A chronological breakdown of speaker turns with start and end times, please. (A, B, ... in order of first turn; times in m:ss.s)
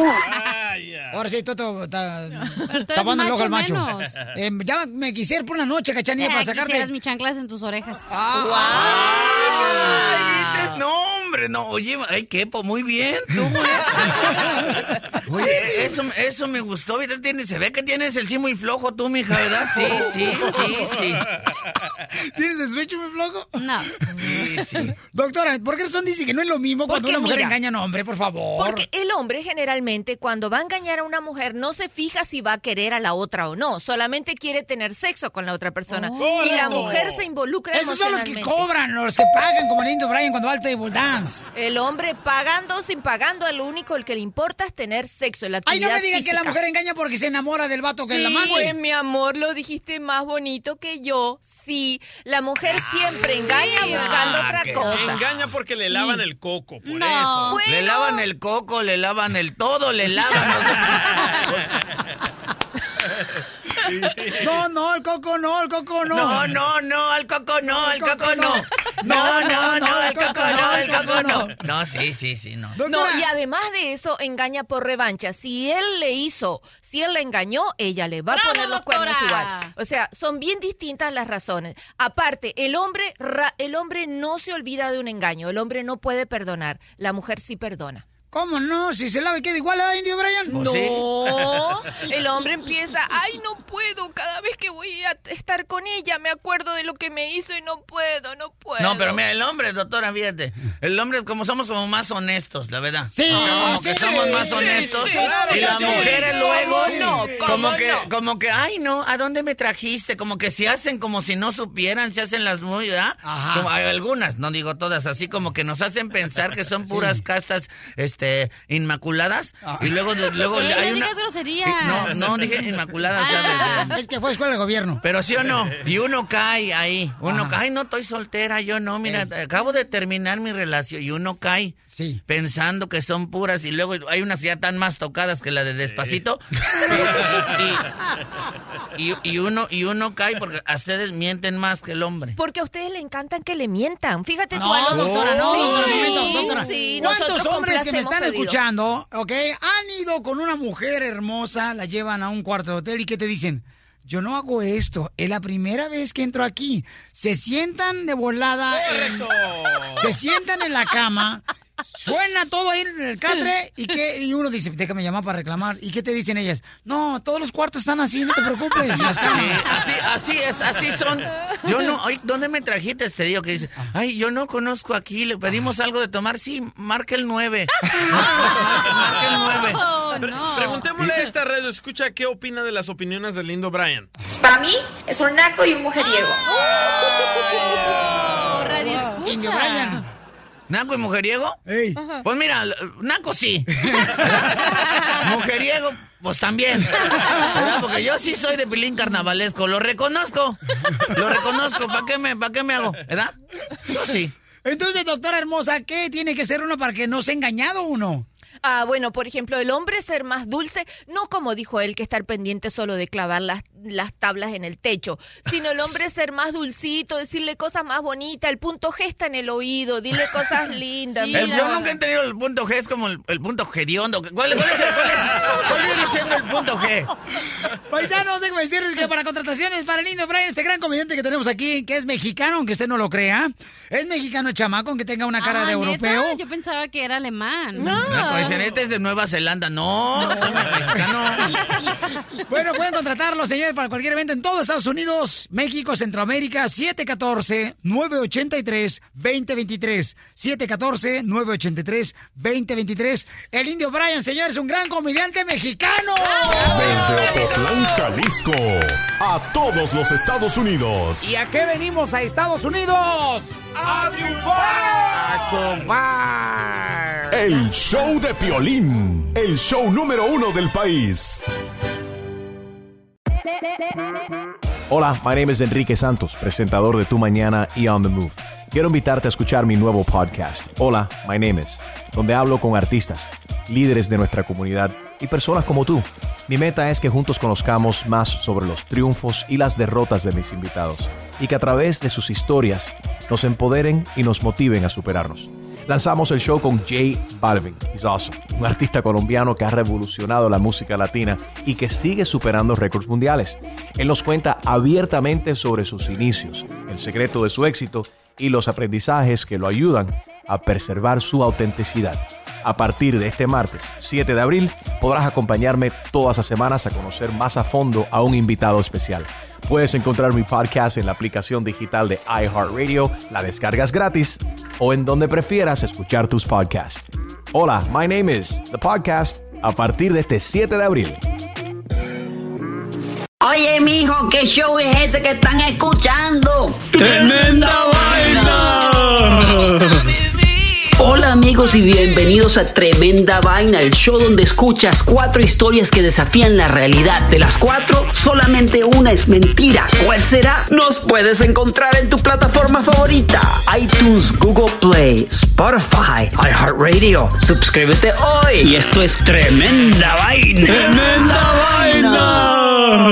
0:00.4-0:01.1 A
0:01.1-0:06.9 B
0:02.6-0:04.1 C
0:06.2-0:10.5 C
0:08.1-0:08.9 B
0:08.7-0:14.2 D
0:15.3-0:21.2 D
0:22.2-0:23.6 B
0:23.6-0:23.9 C
0:24.1-0:24.9 D
0:25.0-0:28.8 B
0:26.9-0:27.5 E
0:26.9-0:27.4 C
0:28.6-0:38.7 E
0:36.2-0:37.2 A
0:37.7-0:41.4 B
0:41.5-0:46.6 E
0:45.6-0:48.8 B
0:48.1-0:55.3 E
0:53.5-0:54.2 C
0:53.8-0:55.0 D
0:54.7-0:57.6 A
0:55.9-0:56.2 E
0:56.8-0:57.6 C
0:57.5-0:58.2 E
0:57.6-1:01.0 D
1:03.9-1:04.4 A
1:04.4-1:06.5 B
1:06.1-1:12.8 D
1:07.7-1:11.6 B
1:12.8-1:13.3 B
1:12.8-1:28.0 E
1:18.3-1:19.7 C
1:28.3-1:30.6 B
1:30.5-1:31.0 D
1:30.5-1:39.2 E
1:38.8-2:01.1 D
1:43.1-1:47.2 B
1:45.1-1:48.1 E
1:53.2-1:53.7 B
1:56.9-1:57.2 B
2:00.5-2:02.4 C
2:01.6-2:03.9 D
2:03.1-2:04.0 C
2:03.6-2:05.0 B
2:05.0-2:17.9 D
2:07.2-2:07.5 B
2:11.9-2:12.2 B
2:19.0-2:22.4 D
2:22.4-2:28.6 E
2:24.5-2:39.3 B
2:24.9-2:25.7 D
2:39.9-2:49.6 B
2:49.0-2:59.8 D
2:59.7-3:00.9 C
3:00.3-3:04.1 A
3:04.4-3:06.4 F
3:08.3-3:10.0 C
3:09.2-3:10.0 B
3:10.7-3:11.6 D
3:11.7-3:12.0 B
3:12.2-3:14.6 D
3:15.2-3:23.3 D
3:23.9-3:24.3 D
3:24.6-3:28.3 B
3:28.6-3:41.8 E
3:41.1-3:42.0 C
3:41.3-3:47.1 D
3:47.9-3:56.4 B
3:55.4-3:58.0 C
3:57.8-3:58.5 E
3:57.9-4:01.5 D
4:00.1-4:01.2 B
4:02.5-4:17.1 B
4:16.6-4:21.3 G
4:17.2-4:17.6 E
4:21.2-4:23.6 B
4:24.0-4:24.5 A
4:24.7-4:27.2 B
4:27.3-4:31.4 G
4:34.9-5:31.2 H
5:33.4-5:39.6 I
5:41.0-5:59.6 I
6:00.6-6:02.6 I